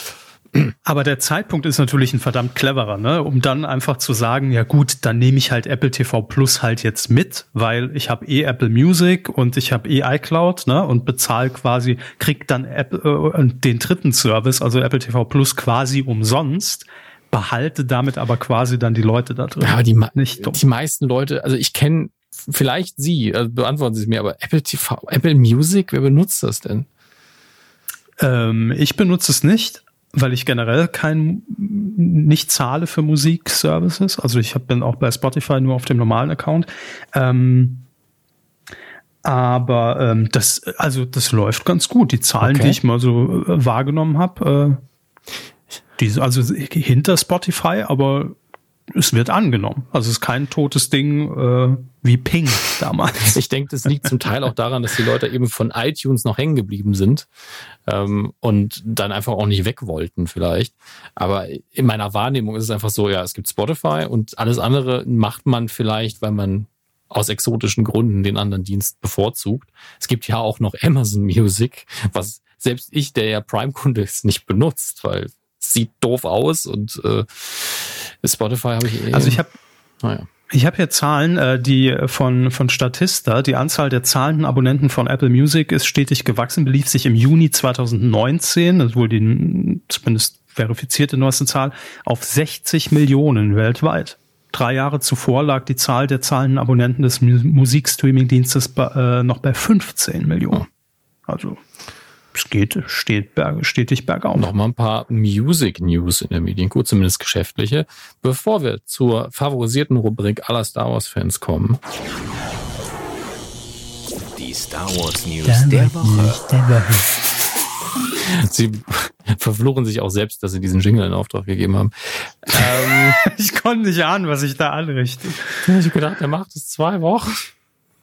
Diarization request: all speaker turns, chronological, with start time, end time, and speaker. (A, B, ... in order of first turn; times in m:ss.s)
0:00.8-0:20.6 A
0:19.6-0:26.9 B
0:28.2-0:37.8 A
0:39.2-0:44.8 A
0:42.4-0:42.8 B
0:46.0-0:48.4 A
0:48.9-0:53.4 A
0:53.2-0:57.3 B
0:57.9-1:19.4 B
1:19.1-1:19.6 A
1:20.0-1:20.3 B
1:20.5-1:40.6 A
1:41.3-1:41.6 A
1:42.3-1:44.5 A
1:44.3-1:51.8 B
1:54.3-1:56.4 C
1:55.4-1:57.0 A
1:58.2-2:03.2 B
2:03.2-2:05.6 A
2:05.6-2:07.5 B